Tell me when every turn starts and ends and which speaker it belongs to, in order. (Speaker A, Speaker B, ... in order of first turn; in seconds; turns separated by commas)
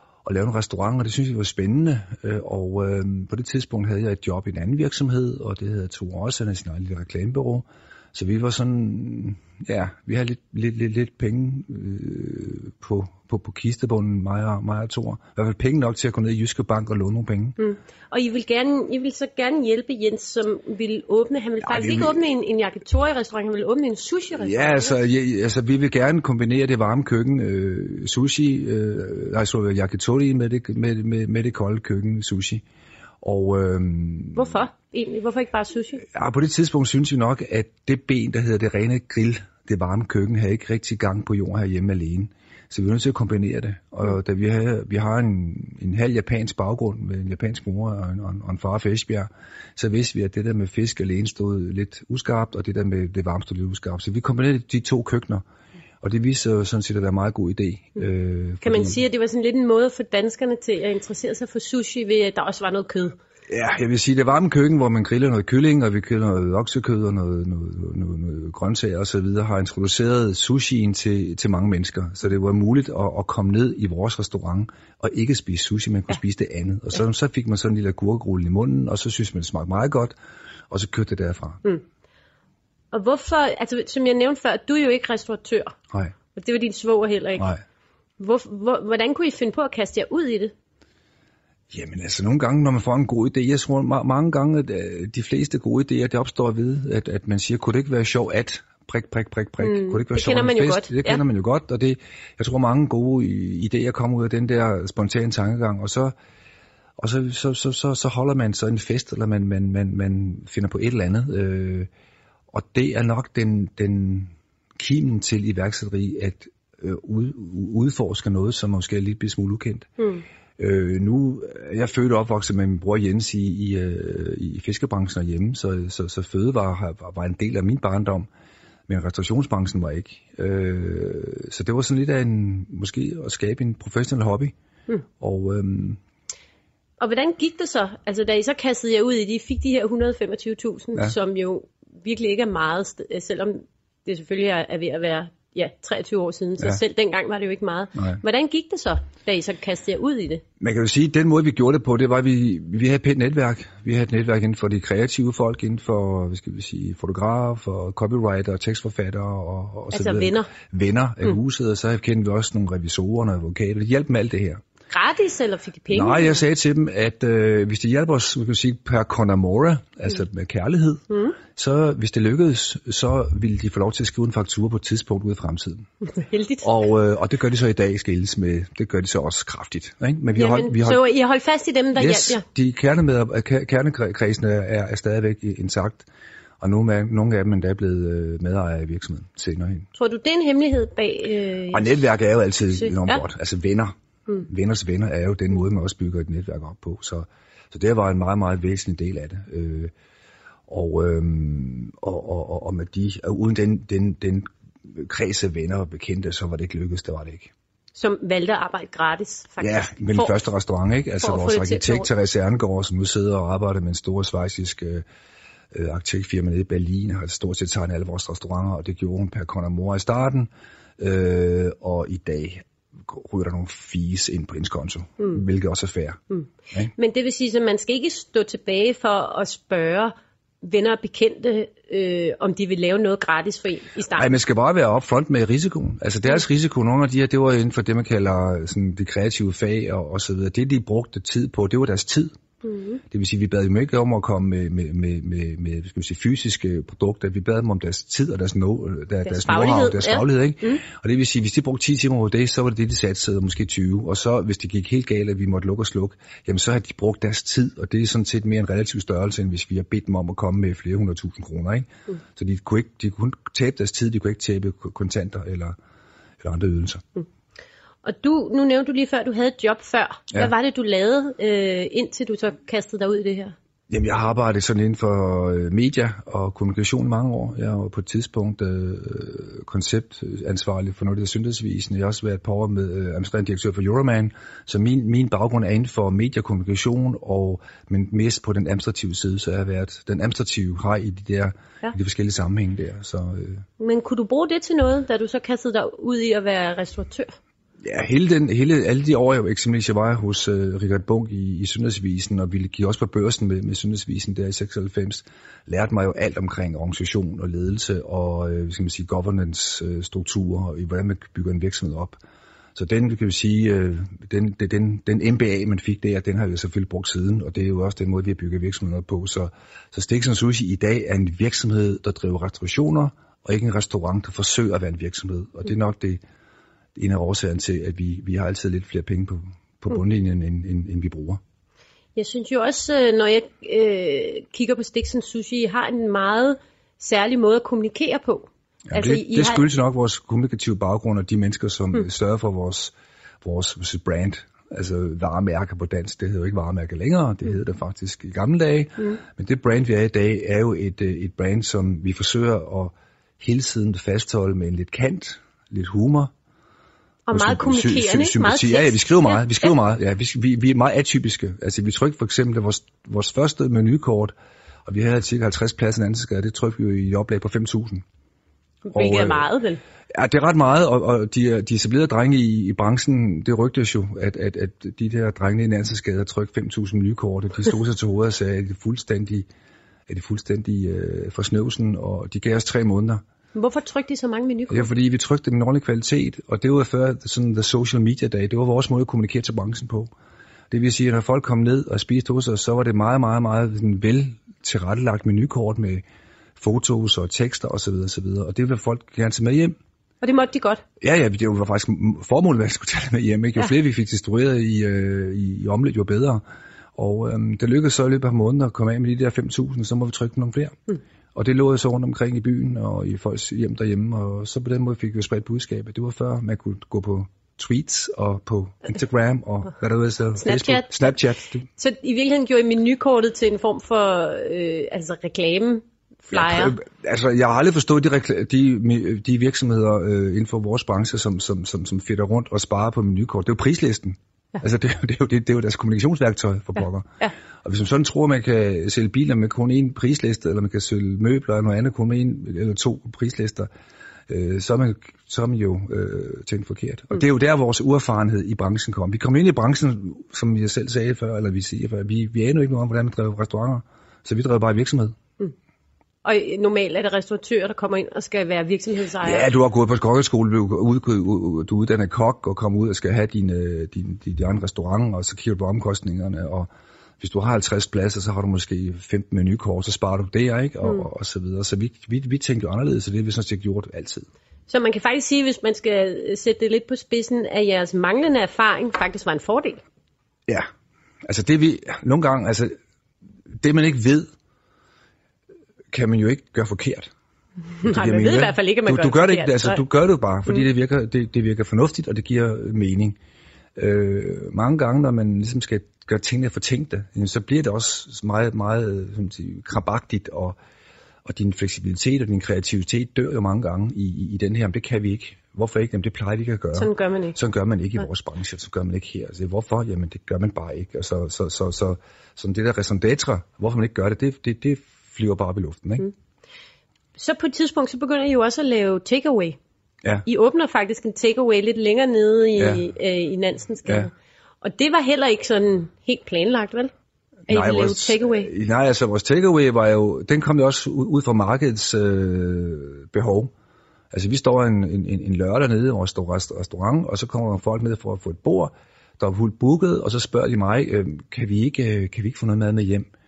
Speaker A: 0.2-17.6, Speaker B: 17.6-25.0, Speaker A: 21.6-22.2, Speaker A: 24.4-32.6, Speaker A: 33.2-34.5, Speaker B: 34.3-36.0, Speaker A: 36.0-55.4, Speaker A: 56.0-59.0, Speaker B: 58.6-63.1, Speaker A: 63.5-80.2, Speaker A: 80.7-81.6, Speaker B: 82.9-85.7, Speaker B: 86.3-87.5, Speaker B: 88.2-90.5, Speaker A: 91.7-106.1, Speaker B: 99.6-101.2, Speaker A: 107.0-111.9, Speaker A: 112.5-119.9, Speaker B: 120.0-120.2, Speaker A: 120.6-128.3, Speaker A: 128.9-134.5, Speaker A: 135.2-136.0, Speaker B: 137.0-150.4, Speaker A: 147.9-148.2, Speaker A: 150.6-164.6, Speaker B: 159.9-160.5, Speaker B: 164.9-166.4, Speaker A: 165.9-175.9, Speaker B: 171.1-171.4, Speaker B: 176.1-176.8, Speaker A: 176.6-181.0, Speaker B: 180.3-182.4, Speaker A: 181.9-186.1, Speaker A: 186.6-189.9, Speaker B: 190.0-192.0, Speaker A: 191.7-199.9, Speaker B: 192.8-193.2, Speaker A: 200.7-207.5, Speaker B: 208.0-210.4, Speaker A: 209.6-215.1, Speaker B: 211.2-212.1, Speaker A: 215.7-226.2, Speaker B: 226.3-234.3, Speaker A: 234.1-242.3, Speaker B: 242.6-243.0, Speaker A: 243.1-265.8, Speaker B: 249.2-250.8, Speaker A: 266.4-267.0, Speaker B: 268.0-273.5, Speaker A: 273.9-293.6, Speaker B: 293.8-297.3, Speaker A: 297.8-312.2, Speaker A: 312.7-326.2, Speaker A: 326.9-331.4, Speaker B: 332.1-339.6, Speaker A: 338.9-356.3, Speaker B: 357.3-359.7, Speaker A: 357.3-364.3, Speaker A: 364.9-368.0, Speaker B: 368.8-369.8, Speaker A: 368.9-369.5, Speaker A: 370.1-379.5, Speaker A: 380.1-383.2, Speaker B: 383.5-384.9, Speaker A: 384.7-390.1, Speaker A: 390.7-396.0, Speaker A: 396.6-399.8, Speaker B: 400.2-400.8, Speaker A: 401.0-406.4, Speaker A: 406.9-410.8, Speaker A: 411.3-421.6, Speaker B: 420.4-420.9, Speaker B: 421.8-426.8, Speaker A: 426.3-443.7, Speaker A: 444.3-455.1, Speaker B: 456.2-459.4, Speaker A: 459.2-466.7, Speaker A: 467.2-474.3, Speaker B: 474.7-479.8, Speaker A: 481.2-482.8, Speaker A: 483.6-484.3, Speaker A: 485.9-487.1, Speaker B: 487.8-489.8, Speaker A: 487.8-493.2, Speaker A: 493.8-500.6, Speaker A: 501.2-516.1, Speaker B: 506.8-507.4, Speaker B: 517.2-519.6, Speaker B: 520.2-526.9, Speaker A: 522.6-522.8, Speaker B: 527.5-528.5, Speaker A: 527.5-533.5, Speaker A: 534.1-543.1